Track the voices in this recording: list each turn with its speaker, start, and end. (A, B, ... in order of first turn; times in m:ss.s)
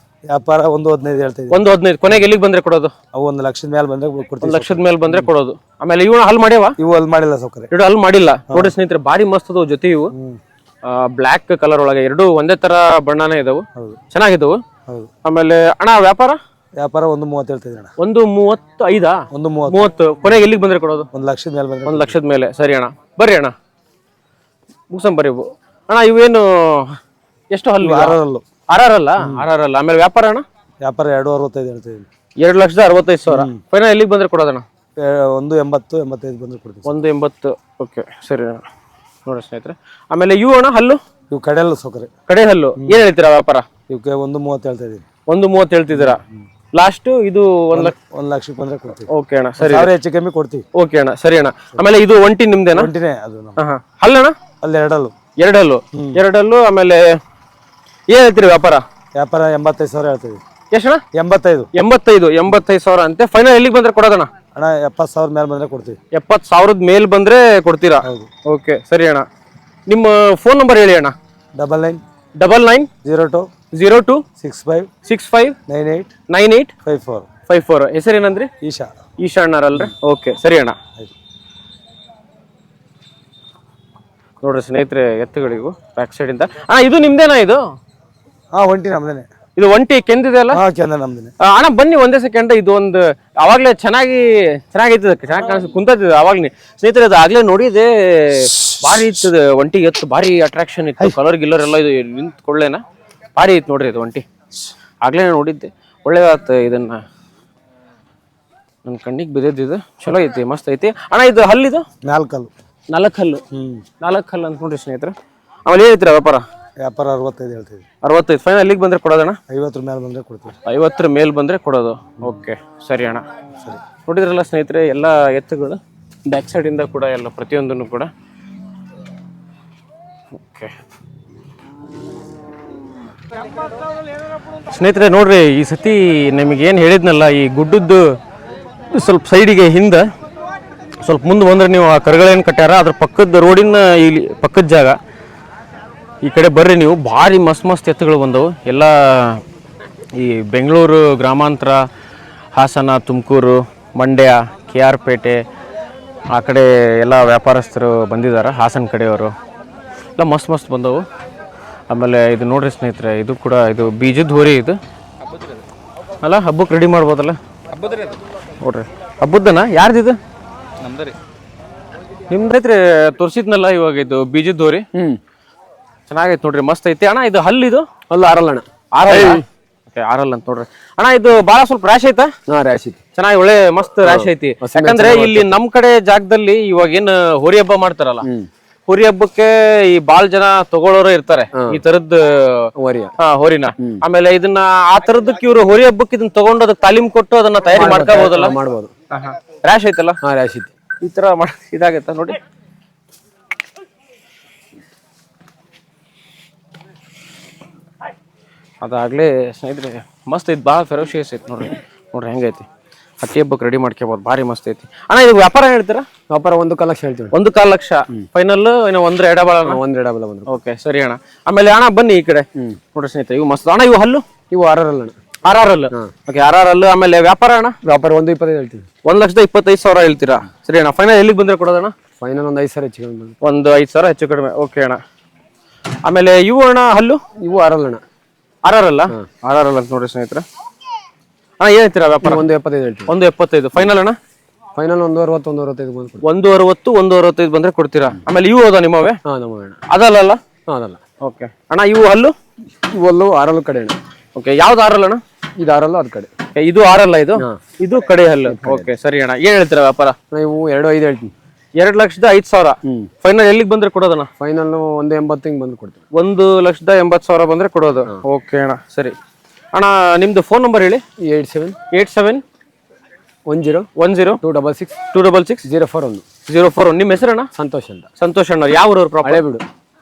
0:00.3-0:02.3 A
0:01.5-0:02.9 B
0:03.1-0:05.3 A
0:04.4-0:06.8 B
0:06.8-0:07.7 A
0:07.7-0:10.1 B
0:10.1-0:10.4 A
0:10.8-0:14.6 B
0:15.2-0:16.4 B
0:16.8-0:17.9 A
0:18.0-0:21.1 B
0:19.3-0:20.4 A
0:21.1-0:22.2 A
0:21.8-0:23.5 B
0:24.9-0:27.0 B
0:27.5-0:28.2 B
0:27.8-0:28.4 A
0:28.7-0:30.4 B
0:30.8-0:32.0 A
0:32.4-0:34.6 B
0:33.3-0:33.6 A
0:35.0-0:36.9 A
0:36.8-0:38.6 B
0:39.2-0:41.0 B
0:41.3-0:42.1 A
0:42.3-0:43.6 B
0:42.8-0:43.0 A
0:43.9-0:45.0 A
0:45.3-0:46.2 B
0:45.9-0:46.2 A
0:46.7-0:47.9 B
0:47.7-0:50.6 A
0:49.1-0:49.9 B
0:50.7-0:52.9 B
0:52.7-0:53.6 A
0:53.6-0:54.4 B
0:54.6-0:55.1 A
0:55.4-0:57.2 B
0:55.9-0:56.2 A
0:58.1-0:58.8 B
0:59.2-1:00.4 A
1:00.7-1:01.0 B
1:01.1-1:01.7 A
1:01.7-1:04.3 B
1:04.5-1:06.0 A
1:06.1-1:09.2 B
1:08.0-1:08.3 A
1:09.9-1:11.1 B
1:11.5-1:12.0 A
1:12.4-1:12.9 B
1:13.0-1:13.5 A
1:13.7-1:14.2 B
1:14.4-1:14.9 A
1:15.0-1:15.6 B
1:15.7-1:16.1 A
1:16.3-1:16.7 B
1:16.8-1:17.3 A
1:17.5-1:18.5 B
1:18.6-1:18.9 A
1:19.2-1:20.8 B
1:24.4-1:27.6 B
1:28.5-1:29.3 A
1:29.6-1:30.6 B
1:30.5-1:31.3 A
1:31.4-1:42.8 B
1:43.4-1:44.2 B
1:45.0-1:47.0 B
1:48.8-1:51.8 B
1:52.0-1:52.5 A
1:52.9-1:53.4 B
1:53.5-1:53.8 A
1:54.0-1:55.1 B
1:55.6-1:56.4 B
1:56.8-1:57.8 A
1:58.0-1:59.4 B
1:59.5-2:00.5 A
2:00.6-2:03.2 B
2:04.0-2:08.1 B
2:10.5-2:10.7 B
2:14.7-2:18.1 B
2:18.9-2:20.0 B
2:21.0-2:25.0 B
2:26.2-2:29.4 B
2:30.2-2:31.8 B
2:32.6-2:35.4 B
2:36.3-2:39.3 B
2:40.2-2:41.0 B
2:41.9-2:44.8 B
2:46.2-2:47.4 B
2:48.6-2:50.2 B
2:52.3-2:54.8 B
2:54.9-2:55.2 C
2:56.1-2:57.9 B
2:58.1-2:59.4 C
2:58.9-3:02.3 B
3:02.5-3:03.0 C
3:03.2-3:08.2 B
3:04.0-3:05.5 C
3:08.2-3:08.5 C
3:08.9-3:12.7 B
3:11.6-3:11.8 C
3:12.8-3:13.1 C
3:13.2-3:18.6 B
3:17.7-3:18.9 C
3:19.1-3:20.2 B
3:20.2-3:20.7 C
3:21.0-3:22.4 B
3:28.8-3:32.6 B
3:33.2-3:36.0 B
3:36.3-3:37.3 C
3:37.3-3:39.8 B
3:39.6-3:40.6 C
3:40.5-3:44.2 B
3:44.5-3:45.2 C
3:45.4-3:47.8 B
3:47.8-3:48.9 C
3:49.0-3:51.9 B
3:52.2-3:53.3 C
3:53.4-3:55.0 B
3:56.0-3:57.2 B
3:57.4-3:58.0 C
3:58.6-4:00.4 B
4:01.6-4:02.4 B
4:02.2-4:03.2 C
4:03.1-4:04.2 B
4:04.8-4:06.2 C
4:06.2-4:09.2 B
4:09.2-4:09.8 C
4:09.9-4:10.4 B
4:10.7-4:11.0 C
4:11.2-4:12.3 B
4:12.9-4:14.0 C
4:14.4-4:15.2 B
4:15.6-4:16.3 C
4:16.6-4:20.2 B
4:18.5-4:18.9 C
4:20.3-4:21.3 C
4:21.8-4:24.3 B
4:24.4-4:26.0 C
4:26.1-4:29.2 B
4:29.7-4:31.0 B
4:31.2-4:31.8 C
4:31.9-4:32.4 B
4:33.5-4:33.9 C
4:34.0-4:34.4 B
4:34.4-4:35.0 C
4:35.1-4:35.6 B
4:35.6-4:36.2 C
4:36.5-4:37.5 B
4:37.5-4:38.1 C
4:38.2-4:39.4 B
4:39.2-4:39.6 C